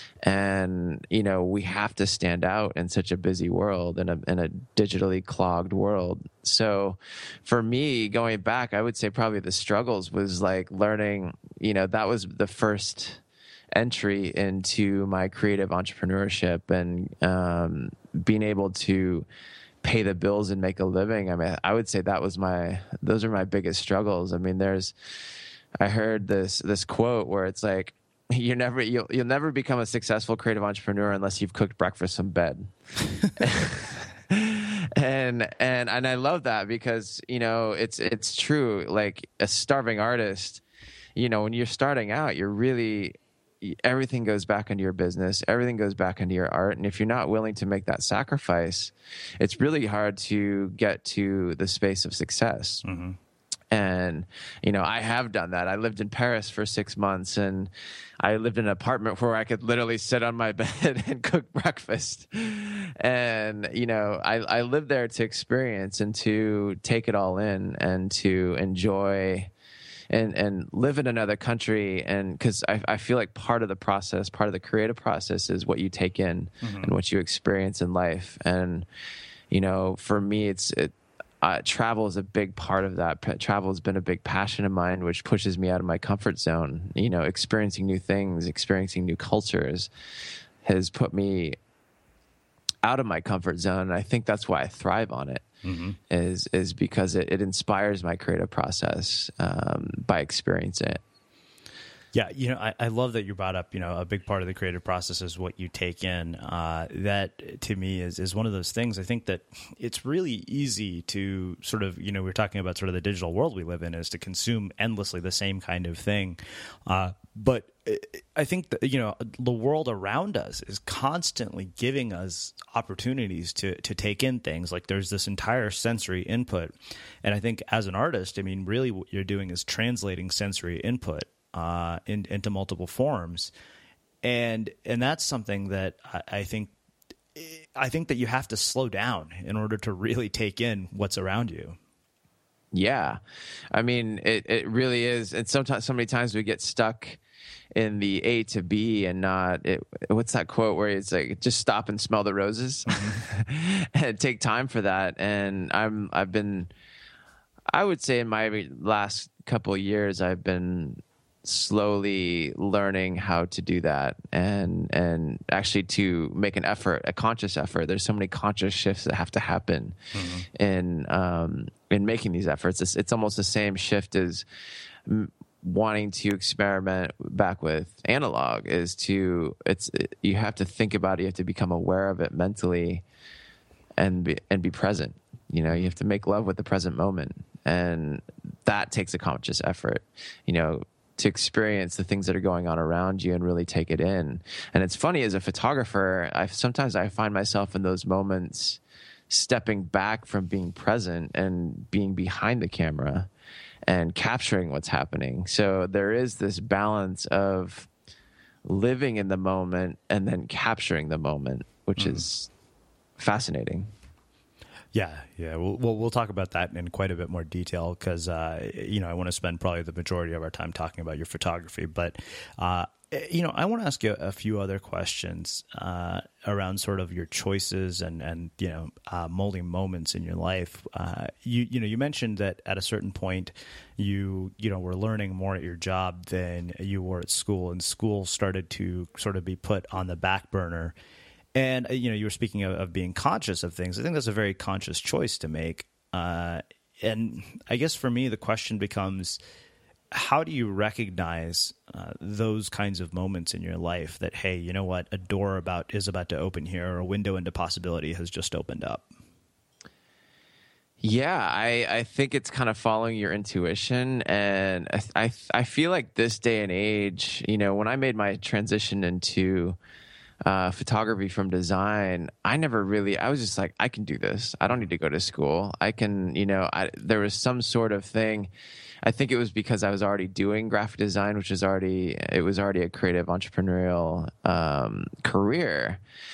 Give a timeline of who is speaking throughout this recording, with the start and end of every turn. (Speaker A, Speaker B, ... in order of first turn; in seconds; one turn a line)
Speaker A: 0.2-13.2
Speaker A: 13.7-19.2
Speaker A: 19.8-24.9
Speaker A: 25.8-32.7
Speaker A: 33.4-40.6
Speaker A: 41.1-52.8
Speaker B: 52.8-53.2
Speaker A: 53.7-57.7
Speaker A: 58.2-69.5
Speaker A: 70.1-78.8
Speaker B: 76.6-76.9
Speaker A: 79.5-89.9
Speaker A: 90.6-91.6
Speaker A: 92.8-95.4
Speaker B: 95.6-96.0
Speaker A: 96.1-101.0
Speaker B: 102.1-126.7
Speaker B: 127.2-133.5
Speaker B: 134.2-136.7
Speaker B: 137.3-141.8
Speaker A: 142.7-143.2
Speaker A: 143.7-147.2
Speaker A: 147.7-156.7
Speaker B: 152.9-153.2
Speaker A: 157.7-170.0
Speaker B: 170.1-170.5
Speaker A: 170.5-174.4
Speaker A: 175.1-183.0
Speaker A: 184.0-198.8
Speaker B: 185.7-185.9
Speaker A: 199.3-203.3
Speaker A: 203.9-207.9
Speaker A: 208.7-212.5
Speaker B: 212.0-212.2
Speaker A: 213.2-213.9
Speaker B: 214.9-240.9
Speaker B: 241.5-249.4
Speaker B: 250.1-259.1
Speaker A: 261.0-269.8
Speaker A: 270.4-278.5
Speaker A: 279.0-286.0